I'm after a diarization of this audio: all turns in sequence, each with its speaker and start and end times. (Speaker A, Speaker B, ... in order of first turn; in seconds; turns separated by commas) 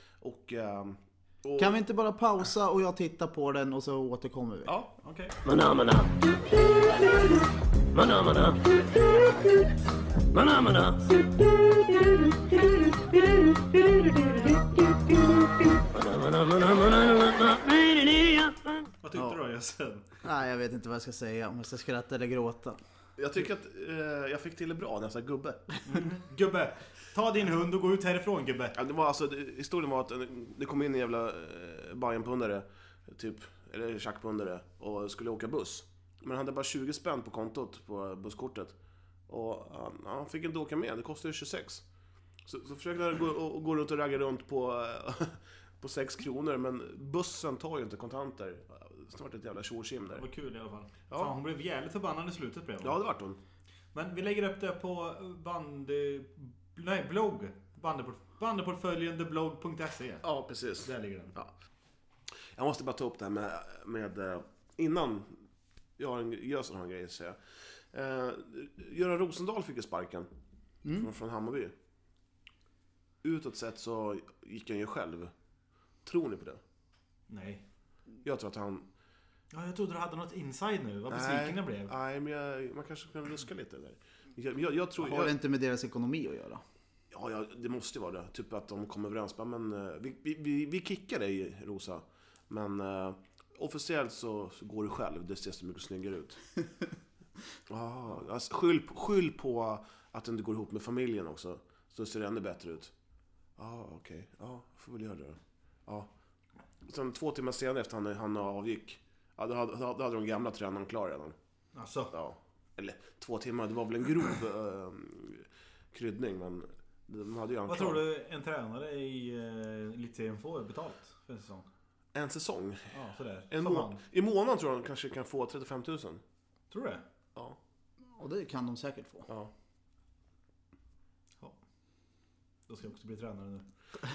Speaker A: 0.2-1.8, Speaker B: 1.6-4.7, Speaker A: 4.7-4.9, Speaker C: 5.0-5.4, Speaker C: 19.0-20.1, Speaker B: 20.2-22.8, Speaker A: 23.2-25.8, Speaker C: 25.9-28.8, Speaker A: 28.8-38.8, Speaker A: 39.3-41.8, Speaker A: 42.5-50.3, Speaker C: 50.2-53.0, Speaker A: 52.8-53.4, Speaker C: 53.9-60.2, Speaker A: 60.2-61.5, Speaker C: 60.8-61.3, Speaker A: 62.6-65.3, Speaker A: 66.0-67.4, Speaker A: 67.9-70.3, Speaker A: 70.9-71.7, Speaker A: 73.2-75.3, Speaker A: 76.0-76.6, Speaker C: 77.3-77.6, Speaker A: 78.2-78.9, Speaker C: 79.5-81.9, Speaker A: 81.1-85.3, Speaker B: 85.0-86.6, Speaker A: 87.1-96.4, Speaker A: 97.7-102.9, Speaker A: 103.6-106.1, Speaker A: 106.9-111.3, Speaker C: 111.8-112.1, Speaker A: 112.1-118.0, Speaker C: 117.7-121.7, Speaker A: 122.1-123.0, Speaker C: 122.9-124.0, Speaker A: 123.5-126.2, Speaker C: 126.7-127.0, Speaker B: 128.2-129.3, Speaker C: 132.7-133.7